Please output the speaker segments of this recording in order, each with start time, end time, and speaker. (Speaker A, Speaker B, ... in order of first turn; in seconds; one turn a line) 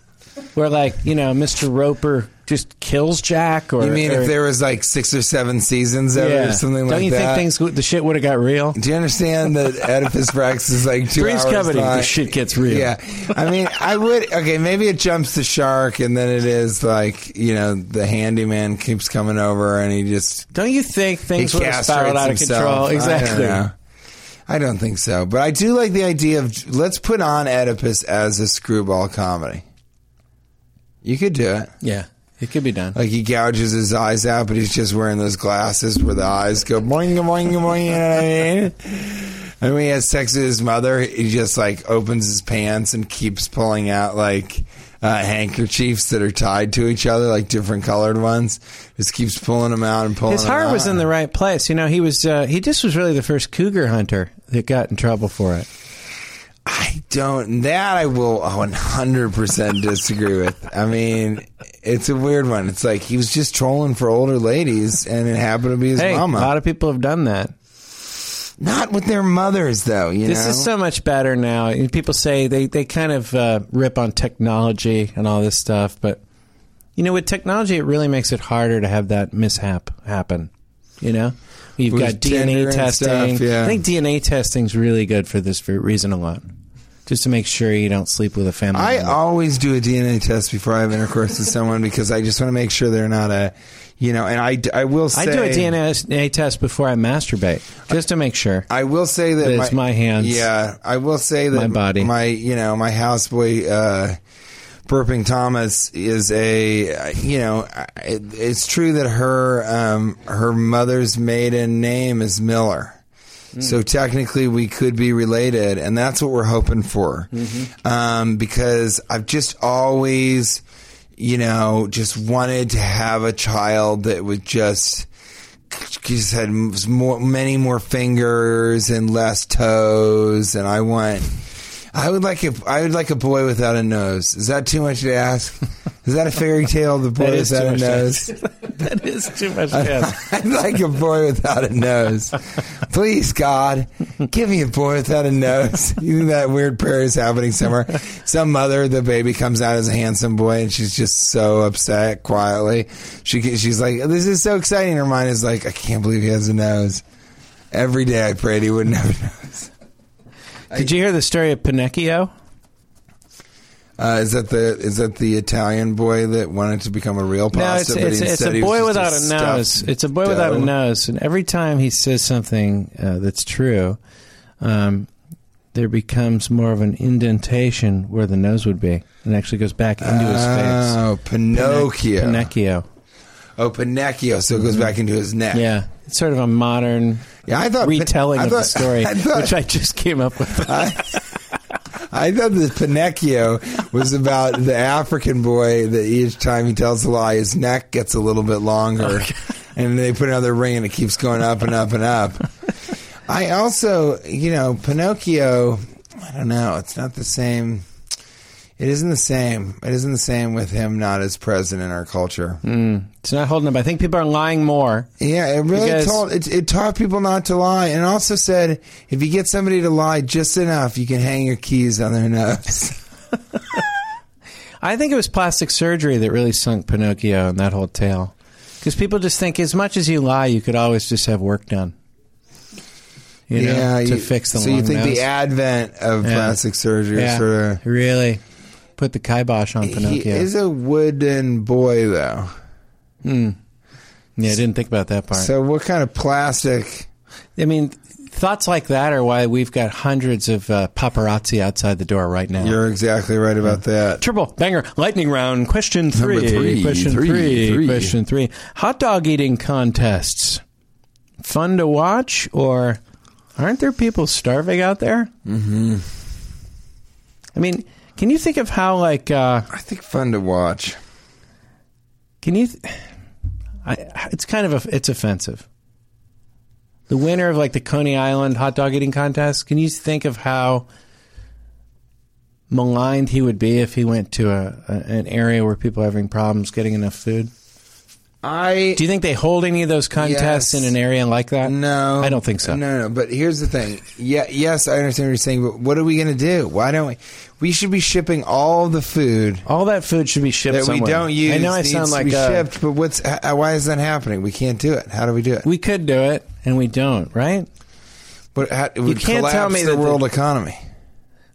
Speaker A: 0.6-4.3
Speaker B: 3.8-7.5
Speaker A: 6.1-8.8
Speaker B: 8.8-20.5
Speaker A: 11.1-12.9
Speaker A: 20.5-23.6
Speaker B: 21.4-23.7
Speaker B: 24.5-29.6
Speaker B: 31.0-31.7
Speaker A: 31.8-33.0
Speaker B: 32.9-51.1
Speaker A: 50.3-55.7
Speaker B: 56.6-66.5
Speaker A: 66.0-67.5
Speaker B: 68.6-70.7
Speaker A: 70.3-76.2
Speaker A: 77.0-80.5
Speaker A: 81.0-86.5
Speaker B: 81.9-83.8
Speaker A: 87.1-89.2
Speaker B: 88.7-95.8
Speaker A: 95.1-98.7
Speaker B: 98.7-104.2
Speaker A: 99.4-100.5
Speaker A: 101.5-102.1
Speaker B: 104.9-113.0
Speaker B: 113.6-120.6
Speaker A: 117.3-117.7
Speaker B: 121.2-125.1
Speaker B: 125.7-131.3
Speaker B: 131.9-138.3
Speaker A: 137.2-140.1
Speaker B: 139.7-157.0
Speaker B: 157.7-159.7
Speaker A: 160.7-162.3
Speaker B: 164.0-170.7
Speaker A: 167.5-174.0
Speaker A: 174.6-175.1
Speaker A: 175.7-181.0
Speaker B: 180.0-182.5
Speaker A: 181.5-182.8
Speaker B: 183.6-185.7
Speaker A: 185.5-191.1
Speaker B: 187.5-189.6
Speaker B: 190.5-191.2
Speaker B: 192.1-202.5
Speaker B: 203.3-207.8
Speaker B: 208.8-212.6
Speaker A: 212.6-215.1
Speaker B: 215.2-223.0
Speaker A: 215.7-216.2
Speaker A: 224.8-231.9
Speaker A: 233.5-235.2
Speaker B: 233.5-237.8
Speaker A: 236.2-236.6
Speaker A: 237.1-238.4
Speaker A: 239.0-240.5
Speaker B: 239.8-242.5
Speaker A: 243.2-243.6
Speaker A: 244.4-245.5
Speaker B: 245.3-247.1
Speaker A: 247.6-252.8
Speaker B: 252.6-254.2
Speaker A: 254.2-260.6
Speaker B: 256.1-258.1
Speaker A: 261.4-263.0
Speaker A: 263.6-265.3
Speaker B: 265.5-266.1
Speaker A: 267.6-269.7
Speaker B: 269.7-271.0
Speaker A: 272.4-273.0
Speaker A: 273.8-275.6
Speaker A: 277.1-280.9
Speaker A: 282.7-287.5
Speaker B: 288.4-289.0
Speaker A: 289.0-292.8
Speaker B: 290.2-290.9
Speaker B: 291.6-299.6
Speaker A: 299.6-302.7
Speaker B: 300.7-305.7
Speaker A: 305.6-307.7
Speaker B: 308.6-310.8
Speaker A: 309.1-310.2